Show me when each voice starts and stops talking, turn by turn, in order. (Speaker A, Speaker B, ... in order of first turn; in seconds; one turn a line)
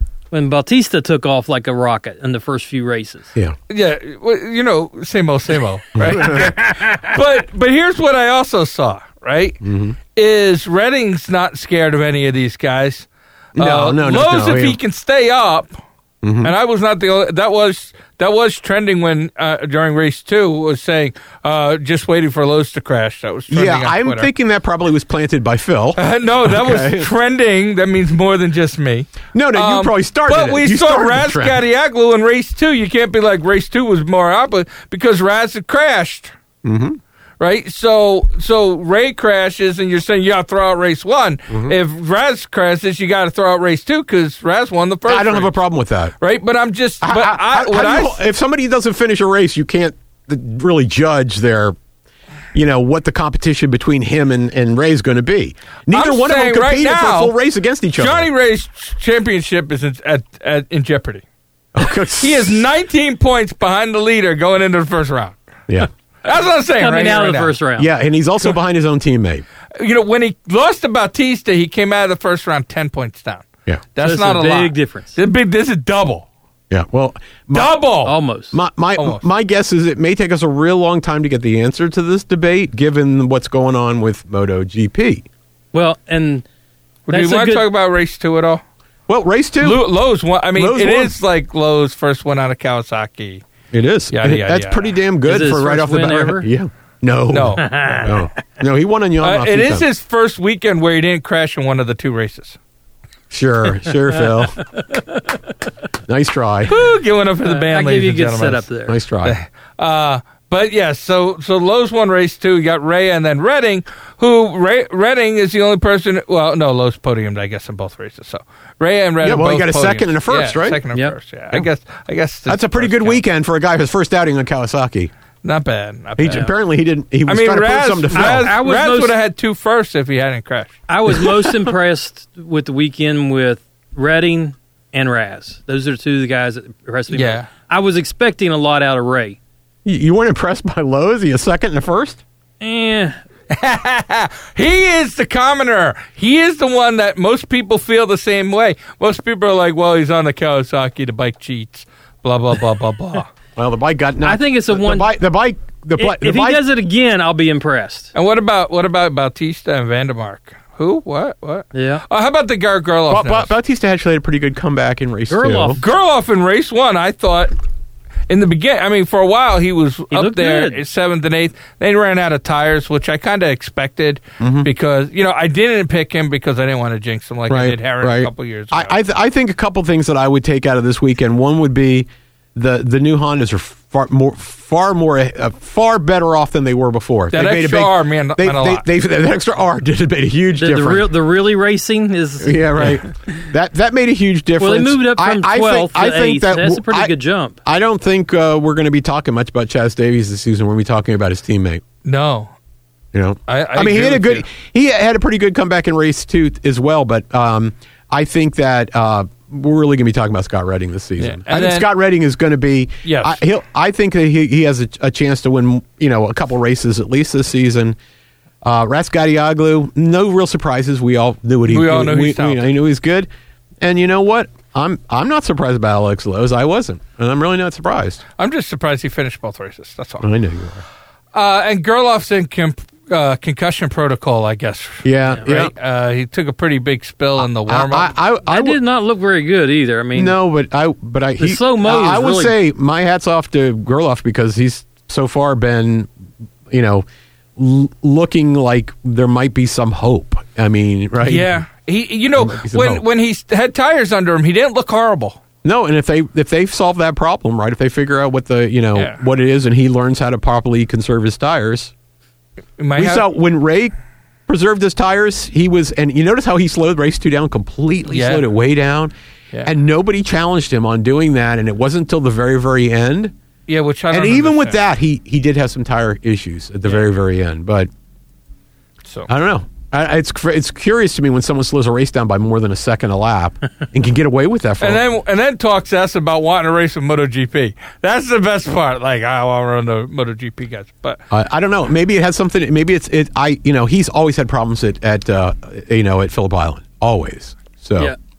Speaker A: 0.3-3.3
Speaker B: 3.7-9.6
Speaker C: 6.0-6.6
Speaker C: 9.6-10.0
Speaker B: 10.1-15.7
Speaker C: 13.6-14.8
Speaker C: 16.2-16.5
Speaker B: 16.4-24.3
Speaker C: 23.5-27.1
Speaker B: 26.0-36.3
Speaker C: 29.3-31.6
Speaker C: 36.6-37.0
Speaker B: 37.4-45.5
Speaker C: 41.5-41.8
Speaker C: 45.1-46.1
Speaker B: 46.2-48.2
Speaker C: 47.0-51.8
Speaker C: 52.5-58.3
Speaker B: 55.9-57.3
Speaker B: 58.0-61.2
Speaker C: 61.7-62.6
Speaker B: 62.1-65.4
Speaker B: 66.2-67.6
Speaker A: 66.8-67.9
Speaker C: 67.8-69.4
Speaker B: 69.8-76.3
Speaker A: 74.0-75.1
Speaker C: 76.7-77.7
Speaker B: 77.5-78.1
Speaker A: 78.0-78.6
Speaker C: 78.5-85.2
Speaker A: 85.7-86.5
Speaker B: 87.1-88.6
Speaker A: 87.1-87.7
Speaker C: 89.1-89.9
Speaker B: 89.6-93.4
Speaker C: 90.5-91.1
Speaker C: 93.7-99.8
Speaker B: 94.1-94.9
Speaker A: 95.2-96.5
Speaker B: 97.3-98.2
Speaker A: 97.6-98.2
Speaker B: 99.2-102.6
Speaker C: 103.3-104.7
Speaker A: 104.7-105.4
Speaker C: 106.1-106.8
Speaker B: 106.7-108.7
Speaker A: 107.4-109.0
Speaker C: 108.9-109.4
Speaker B: 109.2-123.2
Speaker C: 119.2-120.8
Speaker C: 122.5-125.1
Speaker B: 125.4-126.5
Speaker C: 126.2-128.5
Speaker B: 127.2-130.8
Speaker A: 128.1-129.1
Speaker A: 130.9-139.4
Speaker B: 137.1-137.5
Speaker C: 139.8-142.2
Speaker A: 142.6-143.2
Speaker B: 143.5-153.3
Speaker C: 153.6-156.6
Speaker A: 154.2-155.1
Speaker A: 156.0-158.1
Speaker B: 158.1-163.5
Speaker A: 161.7-162.0
Speaker C: 163.1-165.8
Speaker A: 165.3-165.8
Speaker B: 165.8-167.5
Speaker B: 168.3-178.9
Speaker A: 170.1-170.8
Speaker C: 174.4-174.7
Speaker C: 177.5-191.1
Speaker B: 187.3-188.8
Speaker A: 190.6-192.9
Speaker C: 192.4-197.1
Speaker A: 194.6-197.6
Speaker C: 197.6-201.8
Speaker B: 202.0-202.5
Speaker C: 203.1-217.9
Speaker B: 203.5-204.4
Speaker B: 211.2-211.9
Speaker B: 213.1-213.4
Speaker C: 218.6-223.3
Speaker B: 221.7-222.6
Speaker C: 223.8-228.2
Speaker B: 228.4-230.3
Speaker C: 230.2-230.8
Speaker B: 231.3-238.1
Speaker C: 235.0-235.7
Speaker C: 237.4-238.8
Speaker A: 238.5-240.3
Speaker C: 240.1-246.1
Speaker A: 241.4-242.6
Speaker C: 246.7-247.1
Speaker C: 247.6-251.6
Speaker B: 251.2-255.4
Speaker C: 252.4-253.0
Speaker C: 255.6-261.9
Speaker B: 262.8-263.2
Speaker C: 262.9-263.9
Speaker C: 264.5-269.1
Speaker B: 268.1-268.4
Speaker C: 269.6-273.3
Speaker B: 273.7-274.8
Speaker C: 274.1-277.9
Speaker C: 279.3-285.0
Speaker B: 284.8-291.2
Speaker C: 291.3-298.1